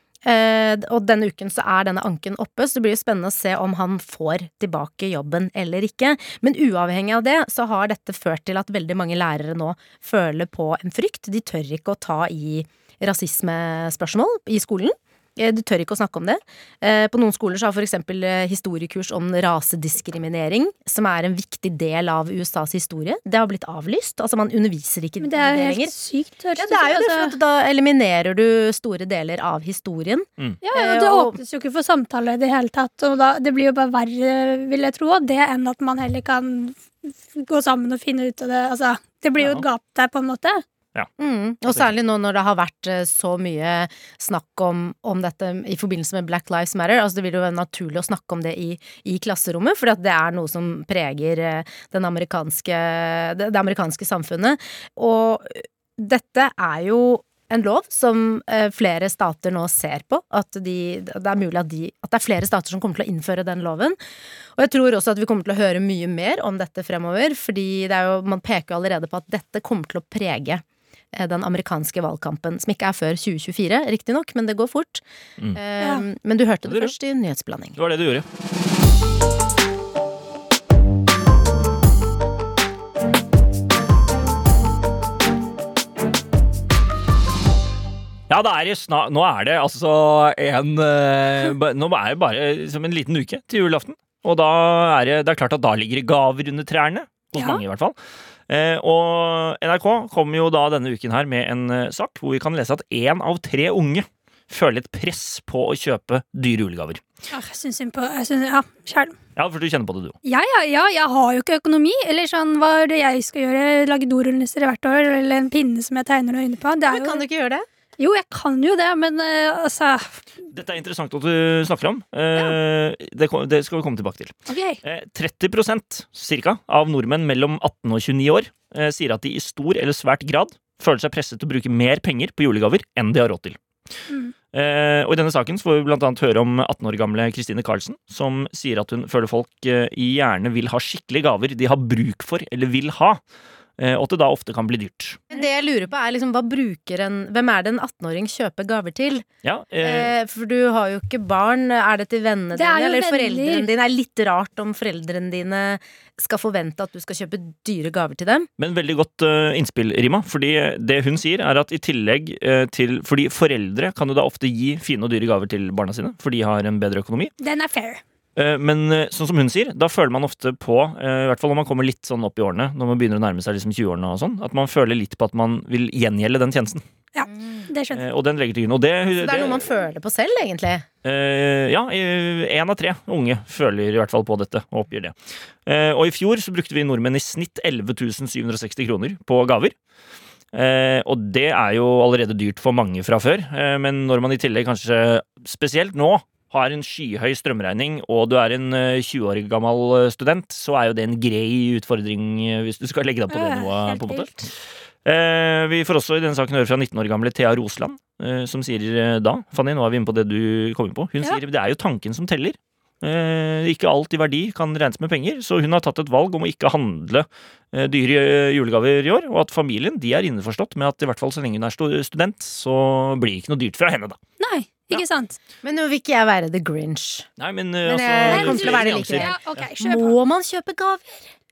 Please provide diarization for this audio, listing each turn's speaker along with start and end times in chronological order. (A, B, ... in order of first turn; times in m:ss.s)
0:00.2-0:25.9 A
0:25.2-0:27.4 B
0:26.6-0:31.4 A
0:30.6-0:40.6 B
0:39.4-0:39.6 C
0:41.2-1:04.0 A
1:04.6-1:10.6 A
1:11.1-1:17.8 A
1:15.8-1:16.0 B
1:16.6-1:16.9 C
1:17.8-1:18.2 C
1:28.3-1:38.0 C
1:38.5-1:47.0 C
1:47.3-1:49.2 B
1:49.4-1:50.1 C
1:50.2-1:57.2 B
1:56.8-1:57.7 A
1:58.0-2:00.2 B
2:00.5-2:13.6 C
2:04.5-2:04.8 B
2:14.5-2:23.2 C
2:23.8-2:25.2 C
2:25.3-2:29.3 A
2:29.4-2:30.1 C
2:29.8-2:38.5 A
2:32.5-2:33.7 B
2:38.6-2:47.3 C
2:47.4-2:48.0 B
2:48.4-2:56.8 C
2:57.1-2:58.0 B
2:57.3-2:57.7 A
2:57.9-2:59.6 C
2:59.2-3:00.8 A
3:01.0-3:05.1 C
3:05.6-3:09.7 C
3:10.5-3:24.5 C
3:23.3-3:24.4 B
3:25.0-3:44.2 C
3:44.4-3:45.4 B
3:45.6-3:47.3 A
3:47.4-3:49.6 C
3:47.8-3:51.3 A
3:48.2-3:50.1 B